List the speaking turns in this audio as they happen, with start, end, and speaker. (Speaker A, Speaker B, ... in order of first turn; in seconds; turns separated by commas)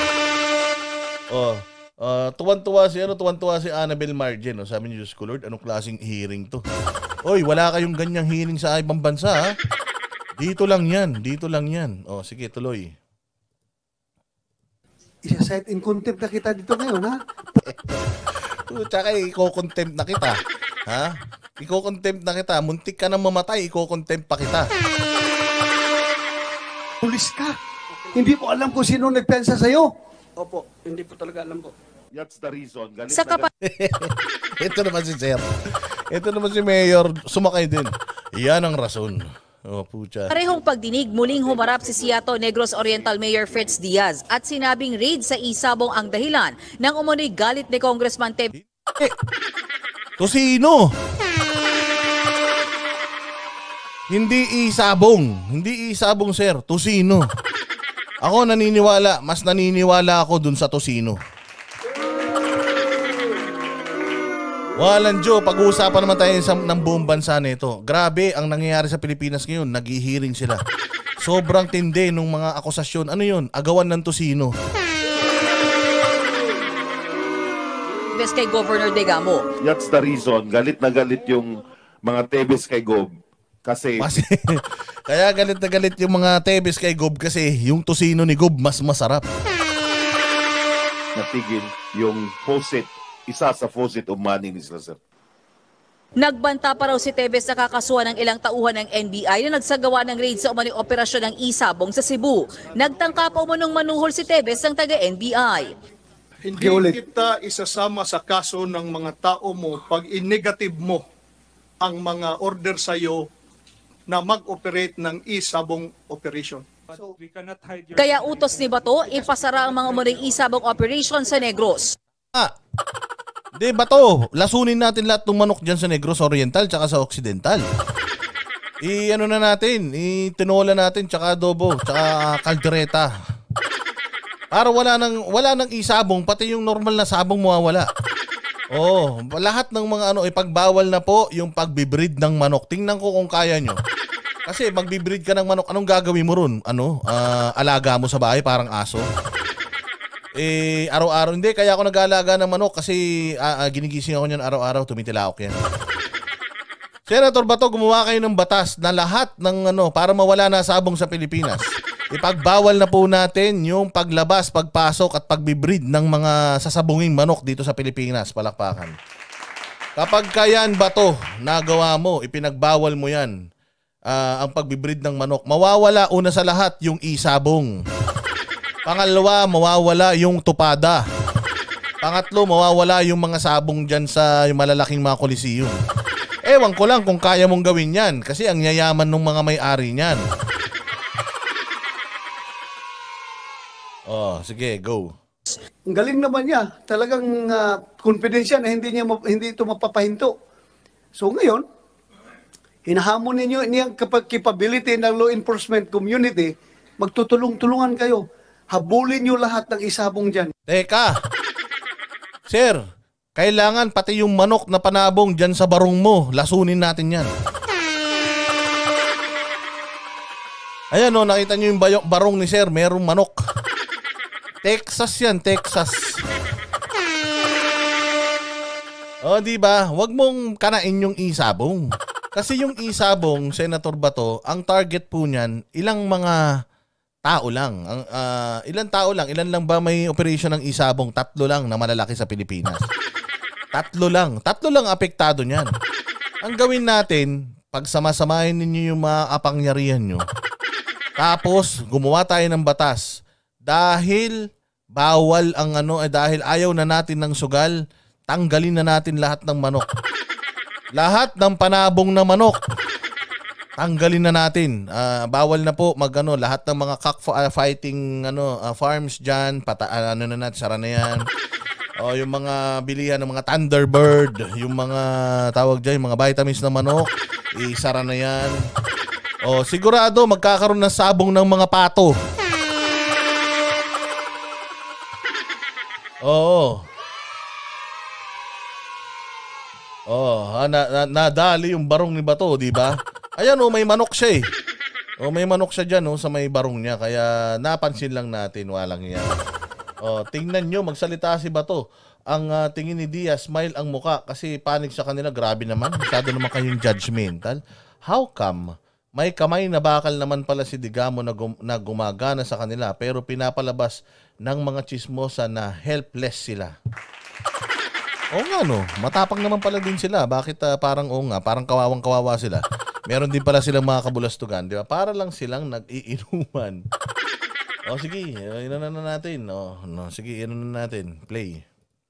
Speaker A: 1.3-6.6, Speaker A: 7.3-9.4, Speaker A: 10.4-12.9, Speaker B: 15.3-17.6, Speaker A: 18.7-24.7, Speaker B: 27.0-27.6, Speaker C: 27.9-28.4, Speaker B: 28.1-29.9, Speaker C: 30.4-31.7, Speaker D: 32.1-33.4, Speaker E: 33.1-33.5, Speaker A: 33.6-35.5, Speaker A: 36.1-40.3, Speaker E: 40.3-48.5, Speaker A: 50.2-50.8, Speaker A: 54.1-57.2, Speaker A: 58.2-61.2, Speaker A: 64.8-70.6, Speaker A: 71.2-74.5, Speaker E: 78.2-79.5, Speaker D: 79.6-83.1, Speaker D: 83.7-84.2, Speaker A: 84.0-89.2, Speaker D: 91.2-95.0, Speaker E: 96.2-105.8, Speaker F: 106.5-111.0, Speaker B: 106.6-107.0, Speaker F: 111.8-113.2, Speaker F: 114.1-116.8, Speaker C: 116.9-118.7, Speaker E: 118.0-122.0, Speaker A: 123.6-127.6, Speaker A: 128.8-133.1, Speaker A: 134.5-137.9, Speaker A: 138.8-143.8, Speaker A: 144.5-149.1, Speaker A: 150.4-155.6, Speaker A: 157.1-168.9, Speaker A: 170.0-173.3, Speaker A: 174.1-177.7, Speaker A: 178.9-181.0, Speaker A: 182.0-185.8, Speaker A: 186.5-190.2, Speaker A: 194.1-195.1, Speaker B: 195.9-200.3, Speaker B: 201.2-201.7, Speaker B: 202.9-210.5, Speaker A: 210.7-211.2, Speaker A: 212.5-212.8, Speaker A: 213.4-217.3, Speaker A: 220.9-223.4, Speaker A: 224.6-226.1, Speaker A: 229.2-231.8, Speaker A: 232.4-236.4, Speaker A: 237.3-242.9, Speaker A: 243.8-245.7, Speaker A: 246.4-250.2, Speaker A: 251.2-253.1, Speaker A: 253.7-254.3, Speaker A: 255.0-257.8, Speaker A: 258.3-259.9, Speaker A: 261.0-262.6, Speaker A: 263.8-271.2, Speaker A: 272.0-278.6, Speaker A: 279.5-282.1, Speaker A: 286.2-286.8, Speaker A: 290.1-294.4, Speaker A: 295.2-299.4, Speaker A: 300.1-316.7, Speaker A: 318.4-326.8, Speaker A: 327.9-331.6